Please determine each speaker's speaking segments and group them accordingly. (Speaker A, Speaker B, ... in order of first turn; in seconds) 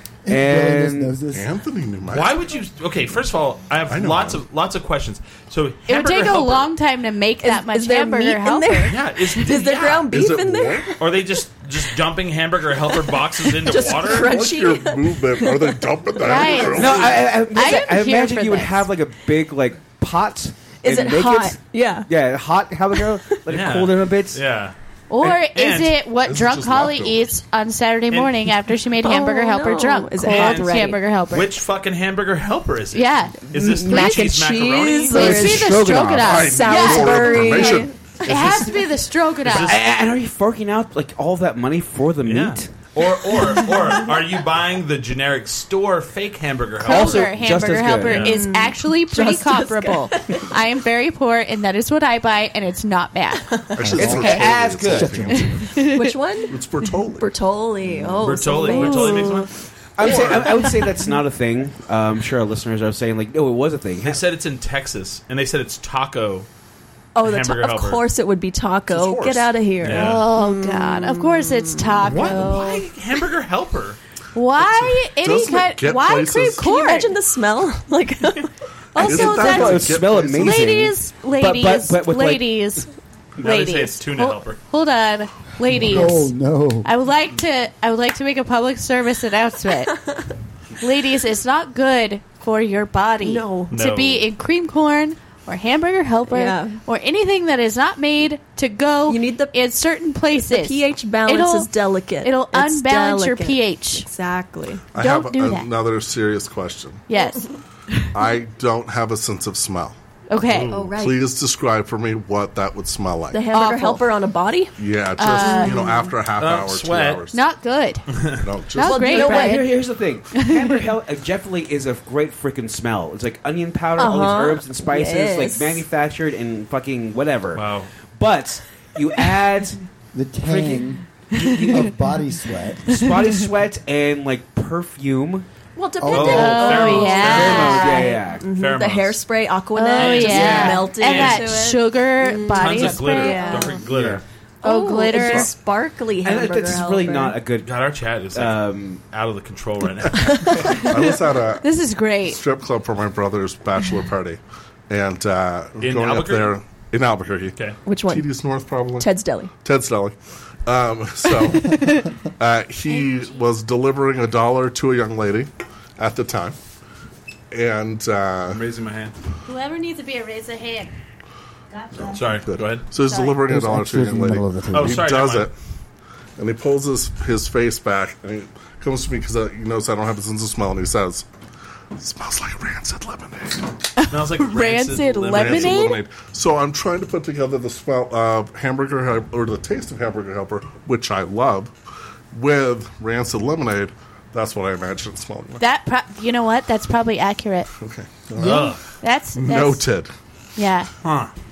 Speaker A: 0.2-1.6, 53.8-55.5, 85.7-86.9, 130.1-131.0, 131.7-132.9, 136.0-137.0, 173.5-175.1
Speaker B: 0.3-1.2, 16.7-24.4, 35.1-36.5, 39.5-42.7, 46.9-48.3, 54.0-55.5, 60.0-64.2, 79.0-82.6, 119.1-129.8, 130.4-131.9, 132.9-135.5, 137.1-138.4, 140.3-140.8, 146.2-147.8, 148.3-149.0
Speaker C: 1.3-2.4, 3.9-4.4, 10.1-11.0, 14.0-17.5, 26.2-27.4, 36.1-38.9, 53.7-55.8, 56.5-57.3, 68.9-69.6, 74.6-76.7, 79.0-80.8, 104.9-107.0, 108.1-110.0, 110.8-113.5, 114.8-117.5, 118.4-119.4, 143.9-144.2, 150.6-151.7, 152.2-166.6, 167.5-168.6, 172.5-175.5, 176.4-181.3, 182.0-183.7, 185.3-191.7, 192.3-195.6, 197.8-198.8, 199.3-200.1
Speaker D: 2.1-6.7, 8.9-10.1, 11.0-14.4, 23.5-26.0, 28.1-28.5, 30.2-35.5, 39.4-39.8, 42.2-48.4, 58.2-59.5, 60.0-60.6, 64.0-66.5, 67.2-68.0, 69.8-70.3, 72.0-74.0, 83.4-84.6, 93.7-94.3, 110.5-110.8, 116.4-117.2, 118.1-118.5, 127.5-127.9, 136.1-137.9, 138.5-139.2, 140.0-141.5, 142.4-144.2, 147.6-150.9, 155.8-156.6, 168.5-169.1, 172.1-172.9, 174.7-175.5, 184.1-185.9, 198.4-198.9, 201.0-201.3
Speaker E: 5.9-9.0, 16.2-18.9, 25.1-31.5, 32.9-34.2, 35.1-39.8, 46.8-54.5, 55.4-56.1, 58.6-59.5, 69.8-72.9, 74.3-77.1, 79.0-90.1, 90.8-101.7, 102.2-104.1, 105.0-105.7, 107.1-108.1, 110.3-110.8, 113.5-114.1, 115.2-116.1, 117.3-118.1, 118.7-119.8, 120.3-120.8, 131.4-131.8, 136.2-138.1, 139.8-143.8, 144.6-145.5, 151.6-152.4, 161.5-162.1, 162.9-163.3, 169.4-170.9, 171.9-172.2, 173.0-173.4, 184.0-186.0, 195.6-197.7, 199.0-199.8, 200.6-200.9
Speaker F: 7.4-11.0, 12.8-16.9, 20.8-22.1, 29.0-31.0, 33.5-35.7, 36.4-37.9, 48.2-50.6, 55.8-56.6, 57.2-59.4, 60.0-60.8, 67.2-72.7, 76.6-79.6, 93.2-93.7, 96.3-96.8, 99.1-99.5, 100.4-104.8, 110.7-111.2, 113.3-114.8, 115.3-116.1, 118.8-119.7, 124.0-125.8, 135.8-143.8, 144.6-147.4, 150.4-150.8, 157.9-158.3, 159.0-159.5